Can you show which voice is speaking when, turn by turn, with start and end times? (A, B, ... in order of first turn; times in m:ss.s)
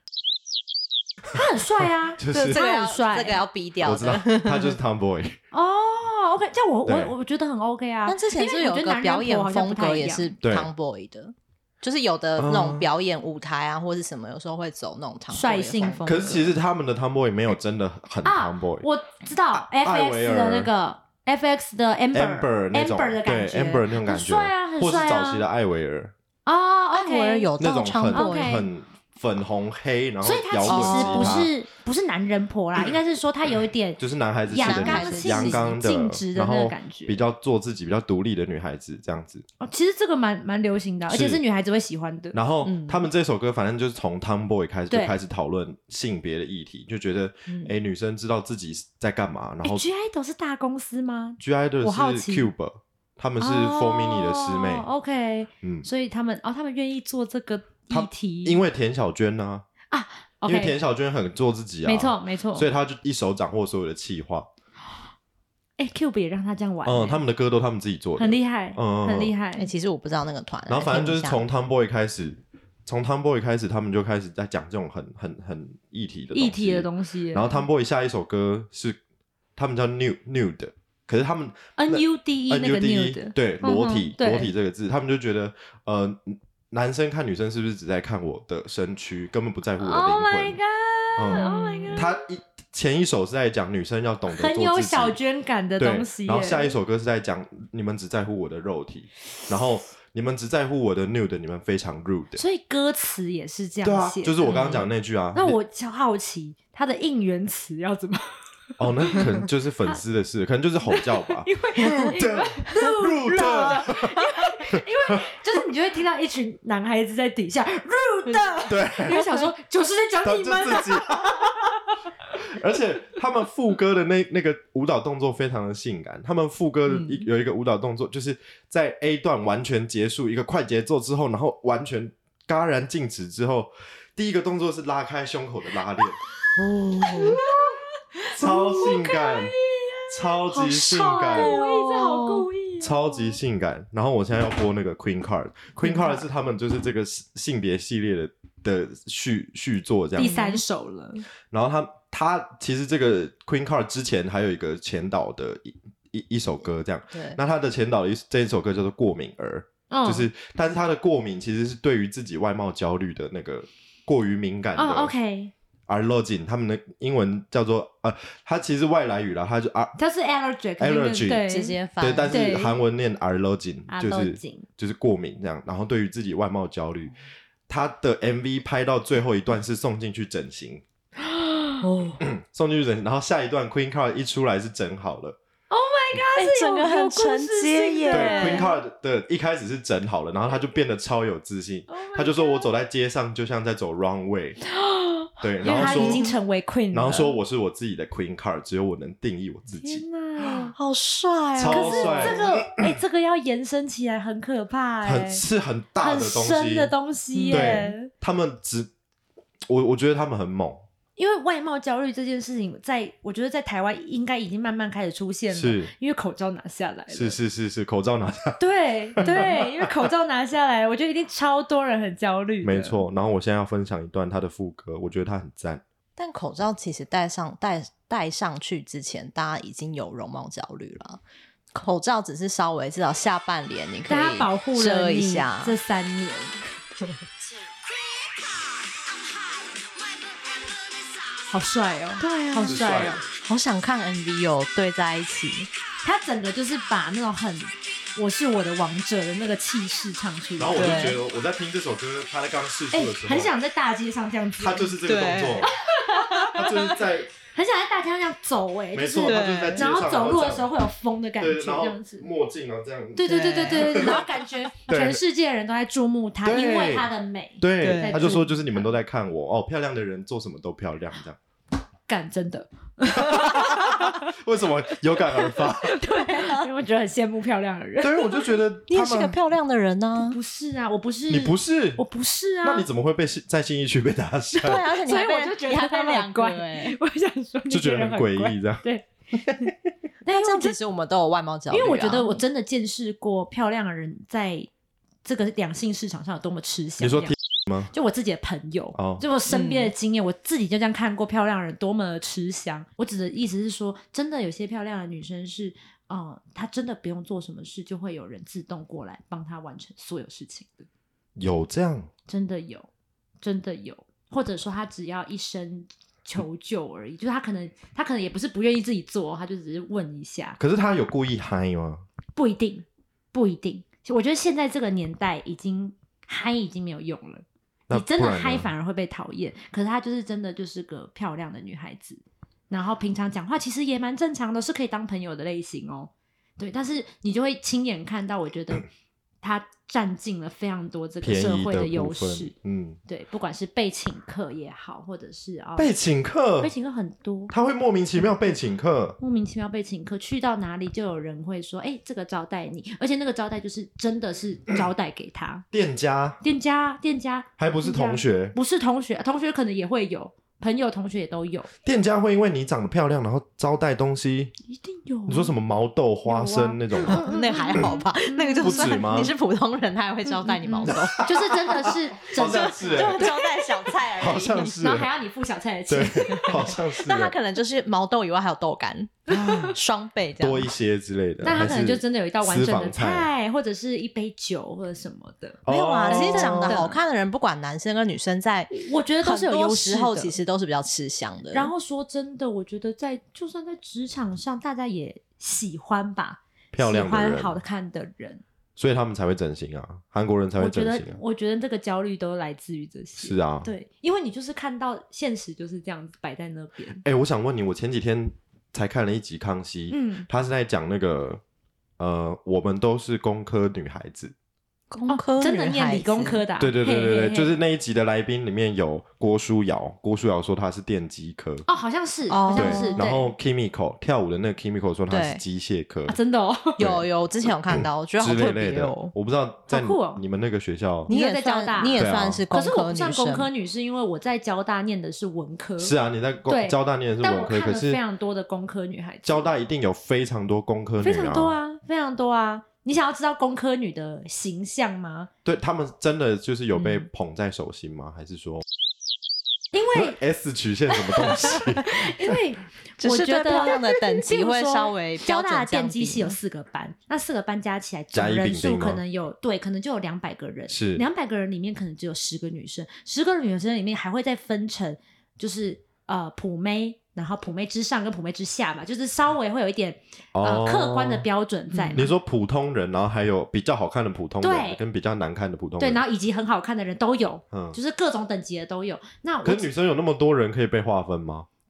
0:01.3-0:03.4 A
0:02.2-0:02.6 B
0:02.3-0:04.8 C
0:03.8-0:05.4 B
0:05.5-0:10.3 A
0:06.9-0:07.1 B
0:08.1-0:16.1 C
0:10.4-0:10.7 B
0:12.4-0:12.9 B
0:15.3-0:16.6 A
0:16.0-0:18.9 B
0:18.2-0:25.5 A
0:19.5-0:20.7 B
0:22.1-0:26.1 B
0:26.5-0:27.5 A
0:26.9-0:28.6 C
0:27.6-0:31.5 B
0:28.1-0:28.7 A
0:30.2-0:37.2 A
0:30.6-0:31.5 C
0:34.0-0:39.4 B
0:34.5-0:35.8 C
0:39.6-0:42.4 A
0:41.1-0:41.4 B
0:42.3-0:49.9 B
0:42.6-0:43.1 C
0:44.9-0:45.2 A
0:47.5-0:47.7 C
0:49.6-0:52.5 A
0:51.4-0:54.9 B
0:53.4-0:58.6 A
0:55.6-0:55.9 B
0:57.9-0:59.7 B
0:59.9-1:00.8 A
1:00.4-1:04.5 B
1:01.8-1:02.7 A
1:05.8-1:07.2 A
1:06.8-1:09.4 B
1:08.2-1:09.7 A
1:09.6-1:11.4 C
1:10.7-1:19.0 B
1:16.3-1:17.6 A
1:19.6-1:30.6 B
1:21.8-1:24.5 A
1:29.8-1:32.1 A
1:31.2-1:35.2 B
1:31.3-1:32.0 C
1:34.3-1:36.8 A
1:35.8-1:42.4 B
1:42.4-1:48.4 A
1:43.8-1:45.6 B
1:44.5-1:44.8 C
1:48.8-1:54.8 B
1:50.8-2:01.4 A
1:52.8-1:53.8 C
1:58.3-1:58.6 C
1:58.7-1:59.3 B
2:00.2-2:01.7 B
2:02.3-2:16.2 B
2:06.9-2:07.3 C
2:16.6-2:17.4 C
2:17.1-2:23.4 A
2:18.4-2:19.6 B
2:18.4-2:19.3 C
2:20.1-2:21.6 B
2:20.5-2:22.5 C
2:22.8-2:30.4 B
2:25.9-2:26.1 C
2:30.2-2:31.3 A
2:30.2-2:30.6 C
2:31.5-2:45.1 B
2:37.1-2:37.4 C
2:39.9-2:40.3 A
2:44.8-2:45.5 A
2:45.9-2:50.0 B
2:50.0-2:52.8 A
2:50.8-2:51.5 B
2:51.4-2:52.5 C
2:52.0-2:57.1 B
2:53.9-2:54.7 A
2:57.7-3:00.8 B
3:01.8-3:02.2 C
3:02.2-3:05.4 B
3:05.7-3:08.8 A
3:06.4-3:08.7 C
3:08.1-3:14.6 B
3:11.9-3:12.7 A
3:15.0-3:17.4 A
3:15.4-3:16.3 B
3:15.6-3:16.3 C
3:16.9-3:20.0 B
3:19.8-3:20.8 A
3:20.4-3:22.4 C
3:21.6-3:22.9 B
3:21.7-3:25.4 A
3:25.0-3:26.9 B
3:26.0-3:28.1 A
3:27.3-3:28.0 C
3:27.5-3:28.9 B
3:29.7-3:30.8 B
3:31.2-3:37.4 A
3:35.5-3:35.9 B
3:37.1-3:38.6 B
3:38.6-3:43.0 A
3:39.2-3:39.7 B
3:42.6-3:45.8 B
3:46.2-3:51.2 C
3:51.7-3:55.8 C
3:54.1-3:57.2 A
4:01.5-4:03.2 A
4:02.2-4:05.7 C
4:02.6-4:03.3 B
4:06.0-4:11.2 A
4:10.6-4:13.5 B
4:10.7-4:11.2 C
4:12.9-4:15.0 A
4:14.6-4:15.7 B
4:15.0-4:15.7 C
4:15.6-4:17.0 A
4:16.2-4:17.0 C
4:16.5-4:17.3 B
4:17.5-4:22.3 A
4:18.9-4:20.7 B
4:19.2-4:19.9 C
4:21.4-4:24.3 B
4:23.2-4:28.8 A
4:23.3-4:24.3 C
4:24.9-4:25.2 B
4:26.4-4:27.1 B
4:27.6-4:31.4 B
4:27.8-4:28.5 C
4:32.1-4:34.2 A
4:33.2-4:36.0 B
4:35.7-4:38.6 A
4:36.0-4:36.7 C
4:38.0-4:39.4 B
4:38.9-4:40.4 C
4:40.2-4:42.9 A
4:41.3-4:42.0 B
4:42.6-4:44.9 B
4:44.6-4:49.6 A
4:44.6-4:47.0 C
4:47.7-4:49.7 B
4:50.2-4:50.8 A
4:50.3-4:52.4 C
4:51.7-4:54.7 A
4:55.2-4:57.4 A
4:57.0-4:57.9 B
4:57.9-5:10.9 A
4:59.0-4:59.2 B
4:59.5-4:59.9 C
5:11.4-5:12.1 B
5:12.3-5:12.9 A
5:13.4-5:20.6 A
5:20.6-5:22.0 B
5:22.4-5:38.9 A
5:27.9-5:28.7 B
5:39.4-5:42.5 A
5:41.2-5:43.0 B
5:43.1-5:45.9 A
5:45.8-5:46.7 B
5:46.6-5:47.5 A
5:47.5-5:49.2 B
5:49.2-5:55.6 A
5:55.7-5:56.4 B
5:56.4-6:01.7 A
5:57.6-5:58.6 B
6:01.8-6:04.5 B
6:04.7-6:05.6 A
6:05.3-6:08.0 B
6:06.2-6:09.2 A
6:07.0-6:11.3 C
6:08.6-6:09.4 B
6:10.3-6:14.0 A
6:10.8-6:13.3 B
6:12.4-6:14.8 C
6:14.1-6:15.1 B
6:14.8-6:16.7 A
6:15.9-6:17.4 B
6:16.4-6:20.7 C
6:19.3-6:19.7 A
6:19.3-6:19.6 B
6:20.4-6:23.3 B
6:21.4-6:27.0 A
6:25.6-6:26.9 B
6:25.7-6:31.7 C
6:28.7-6:30.4 A
6:31.5-6:38.4 A
6:36.7-6:37.6 B
6:38.8-6:41.2 B
6:40.6-6:47.0 A
6:43.2-6:43.7 B
6:47.0-6:51.4 B
6:49.9-6:50.3 A
6:52.0-6:54.3 B
6:54.9-6:56.4 C
6:55.1-6:57.6 A
6:56.6-7:01.7 B
7:01.7-7:03.4 A
7:02.3-7:03.1 C
7:02.5-7:06.2 B
7:05.1-7:05.4 C
7:06.1-7:06.8 A
7:06.8-7:09.1 C
7:06.8-7:11.1 B
7:09.7-7:10.2 A
7:11.1-7:15.9 A
7:11.1-7:13.5 C
7:11.9-7:12.4 B
7:15.8-7:18.0 B
7:16.5-7:19.5 A
7:19.2-7:21.6 B
7:21.0-7:25.3 A
7:25.4-7:28.6 B
7:29.7-7:30.2 A
7:29.9-7:32.0 B
7:30.9-7:52.1 A
7:33.0-7:36.4 C
7:38.1-7:39.0 B
7:40.7-7:41.0 B
7:50.4-7:51.3 B
7:51.7-7:52.1 C
7:51.9-7:56.0 B
7:54.4-7:54.8 A
7:55.8-7:59.7 A
7:57.5-7:57.8 B
7:59.4-8:01.5 B